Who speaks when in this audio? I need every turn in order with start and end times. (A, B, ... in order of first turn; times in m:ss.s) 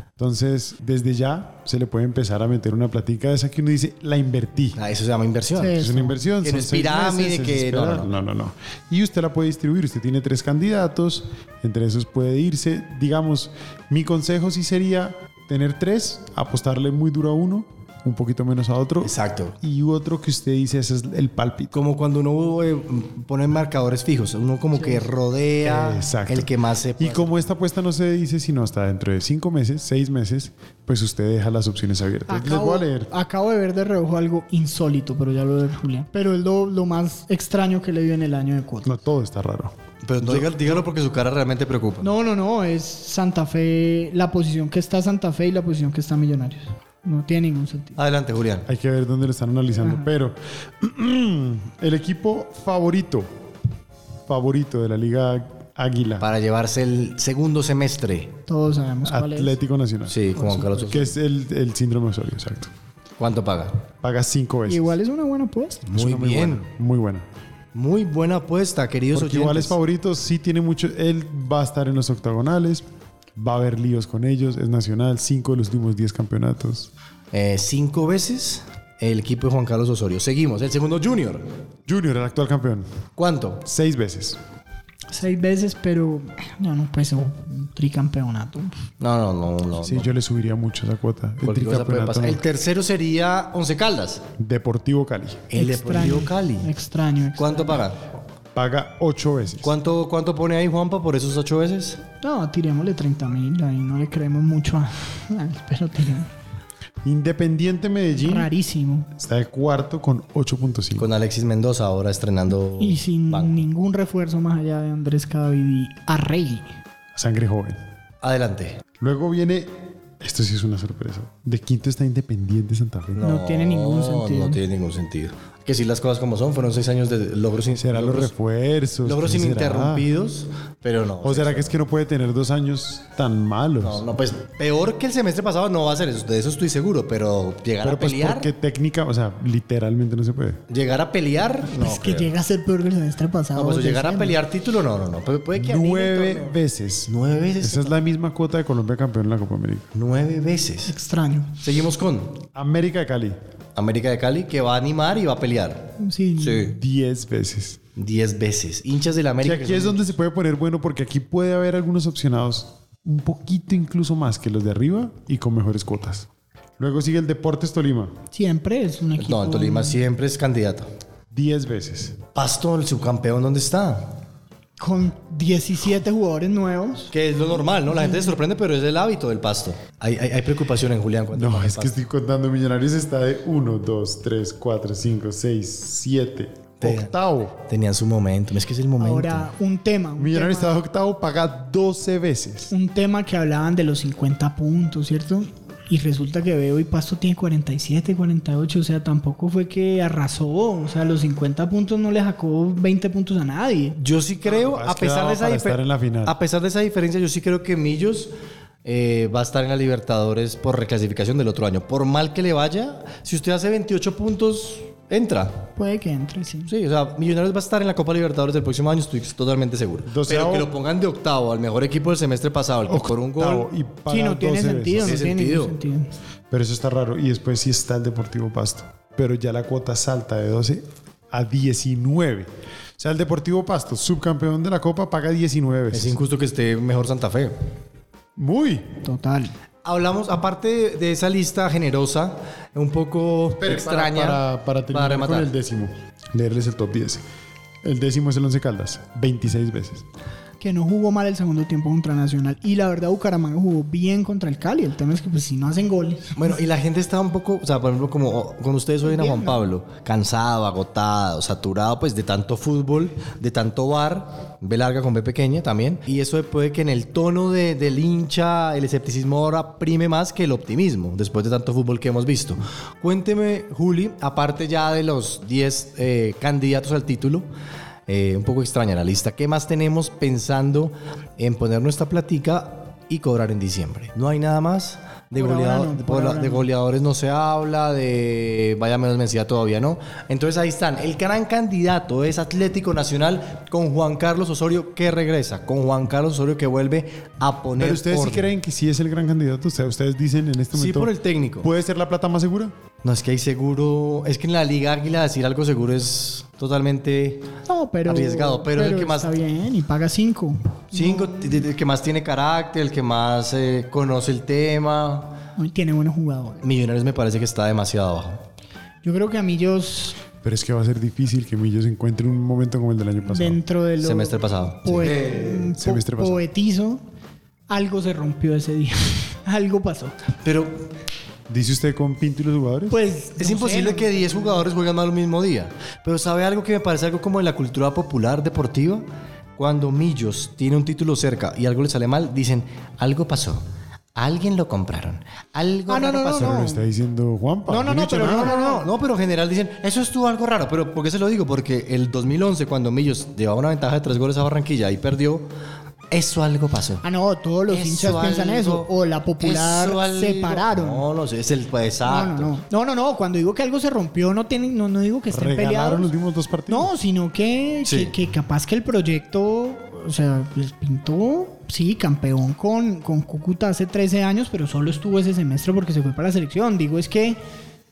0:00.2-0:04.8 A
0:04.8-0:05.8 B
0:05.5-0:06.2 C
0:05.8-0:21.8 A
0:06.4-0:08.1 B
0:19.0-0:19.6 B
0:21.7-0:27.3 B
0:24.8-0:25.0 C
0:25.6-0:33.1 A
0:32.3-0:38.9 C
0:38.8-0:40.6 A
0:40.0-0:42.1 B
0:42.0-0:48.0 C
0:48.0-0:48.7 B
0:48.7-0:53.3 A
0:49.8-0:50.1 C
0:54.3-0:56.2 A
0:56.2-0:58.3 B
0:58.5-0:59.5 C
0:59.0-1:00.2 A
1:00.1-1:01.1 B
1:00.3-1:00.9 C
1:00.8-1:02.7 A
1:03.2-1:03.8 B
1:04.0-1:04.9 A
1:04.7-1:05.8 C
1:05.9-1:06.6 B
1:05.9-1:07.2 A
1:07.7-1:09.7 B
1:09.1-1:12.8 A
1:13.4-1:16.9 A
1:17.3-1:21.4 B
1:21.9-1:22.8 A
1:23.2-1:23.6 B
1:23.6-1:24.4 A
1:25.1-1:28.8 C
1:29.0-1:30.1 B
1:29.8-1:32.4 A
1:31.4-1:34.2 B
1:34.4-1:35.5 A
1:35.5-1:36.7 B
1:35.5-1:37.8 C
1:37.4-1:38.0 B
1:38.5-1:39.7 A
1:39.6-1:42.0 B
1:42.2-1:46.3 C
1:47.0-1:48.5 A
1:48.1-1:49.1 C
1:49.1-1:51.1 A
1:51.0-1:53.6 B
1:52.8-1:56.7 C
1:57.1-1:57.8 A
1:58.2-1:58.8 B
1:59.0-2:03.2 A
2:03.2-2:08.3 B
2:03.2-2:04.6 C
2:07.8-2:10.1 A
2:09.0-2:11.7 B
2:11.2-2:14.0 A
2:13.8-2:18.5 B
2:17.8-2:20.6 A
2:20.7-2:22.3 B
2:21.7-2:24.4 C
2:23.6-2:26.6 B
2:25.6-2:29.9 A
2:27.1-2:28.0 B
2:29.9-2:30.9 B
2:30.9-2:31.6 C
2:31.6-2:32.4 B
2:32.5-2:33.4 A
2:33.8-2:36.8 B
2:36.0-2:36.7 C
2:36.7-2:37.8 A
2:38.0-2:40.1 B
2:39.4-2:46.3 A
2:46.8-2:48.1 A
2:48.3-2:50.0 C
2:49.2-2:50.9 B
2:51.3-2:52.2 A
2:52.3-2:54.2 B
2:54.8-2:57.1 C
2:57.1-3:02.0 B
2:57.7-2:58.3 C
3:01.3-3:07.6 A
3:06.8-3:07.1 B
3:07.6-3:09.5 B
3:09.0-3:10.8 C
3:10.2-3:12.7 A
3:12.7-3:24.0 C
3:24.0-3:28.3 B
3:24.4-3:26.4 A
3:28.8-3:35.7 B
3:35.8-3:36.7 C
3:36.7-3:43.7 B
3:40.1-3:40.7 A
3:42.9-3:45.2 A
3:44.1-3:46.1 C
3:45.0-3:45.8 B
3:46.5-3:56.2 A
3:55.9-3:57.5 B
3:58.4-3:58.8 A
3:59.0-3:59.5 C
3:59.8-4:05.5 B
4:03.6-4:07.2 A
4:07.8-4:10.0 A
4:10.6-4:16.4 C
4:16.3-4:37.4 B
4:19.0-4:19.6 C
4:38.1-4:58.5 B
4:45.4-4:46.7 C
4:57.8-5:01.1 A
5:00.7-5:01.7 B
5:01.6-5:02.7 A
5:03.0-5:07.5 B
5:07.7-5:11.6 C
5:08.0-5:09.4 B
5:10.9-5:15.4 B
5:15.6-5:16.7 C
5:16.6-5:18.4 B
5:19.0-5:20.2 C
5:20.4-5:23.6 A
5:23.2-5:27.0 C
5:24.0-5:25.7 B
5:25.8-5:26.4 A
5:27.7-5:30.2 C
5:30.4-5:30.8 B
5:31.5-5:33.0 A
5:32.9-5:34.7 C
5:33.4-5:39.0 B
5:39.6-5:43.6 B
5:44.2-5:46.6 B
5:45.9-5:46.8 C
5:46.4-5:48.5 A
5:47.7-5:48.9 C
5:48.2-5:55.5 B
5:56.1-5:57.0 B
5:57.0-6:01.0 C
5:57.7-5:58.9 B
5:59.4-6:02.5 B
6:02.0-6:06.1 C
6:05.3-6:06.9 A
6:06.7-6:17.4 C
6:07.8-6:08.1 B